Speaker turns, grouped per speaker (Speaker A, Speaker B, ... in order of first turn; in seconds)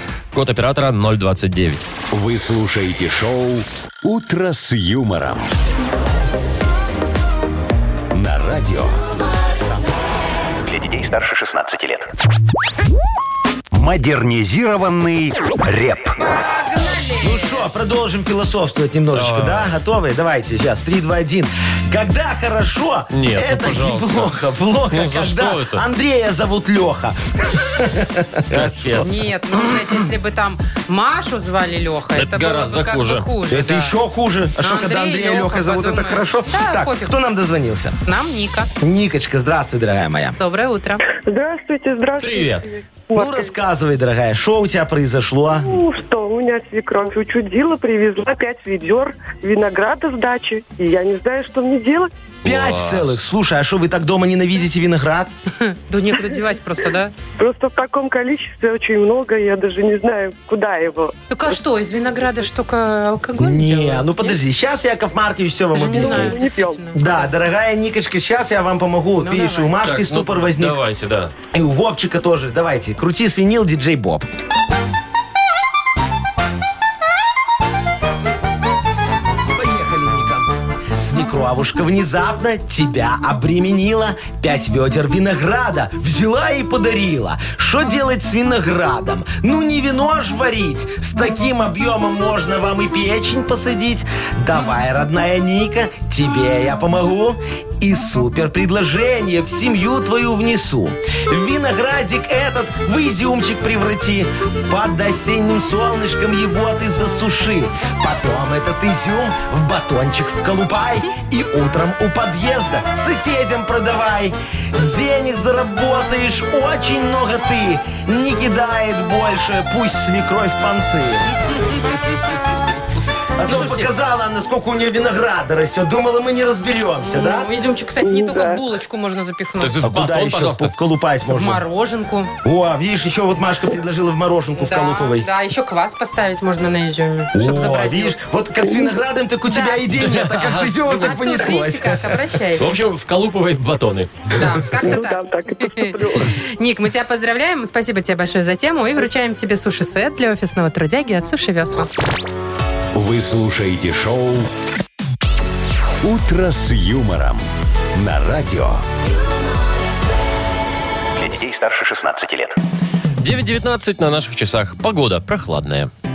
Speaker A: 0.3-1.8, 19.1-19.8, 23.1-24.3, 24.9-25.8, 28.5-30.0, 32.1-33.3, 42.2-42.7, 52.4-53.2, 69.8-71.3, 129.6-130.7, 139.9-140.9, 142.6-144.3, 163.2-165.9
Speaker B: 2.1-5.5, 8.1-9.0, 13.7-16.2, 152.9-154.5, 156.0-157.4, 157.9-158.8
Speaker C: 10.6-12.1, 161.2-162.6
Speaker D: 16.2-17.6, 29.0-33.9, 34.6-37.1, 38.0-38.7, 40.4-41.0, 55.6-57.1, 61.3-64.4, 65.7-67.3, 69.2-69.8, 121.4-122.0, 123.4-123.9, 127.0-129.8, 131.3-132.3, 134.6-138.2, 139.5-139.8, 140.9-142.8, 144.3-151.9
Speaker E: 17.2-29.1, 33.5-38.0, 38.8-40.4, 43.1-45.8, 52.4-55.3, 63.4-66.4, 66.9-70.8, 71.5-74.3, 79.5-121.3, 123.4-127.5, 129.8-131.6, 132.4-135.3, 137.3-142.2
Speaker F: 41.1-43.5, 45.6-52.1, 57.4-61.6, 65.8-66.9, 128.0-128.6, 144.8-146.4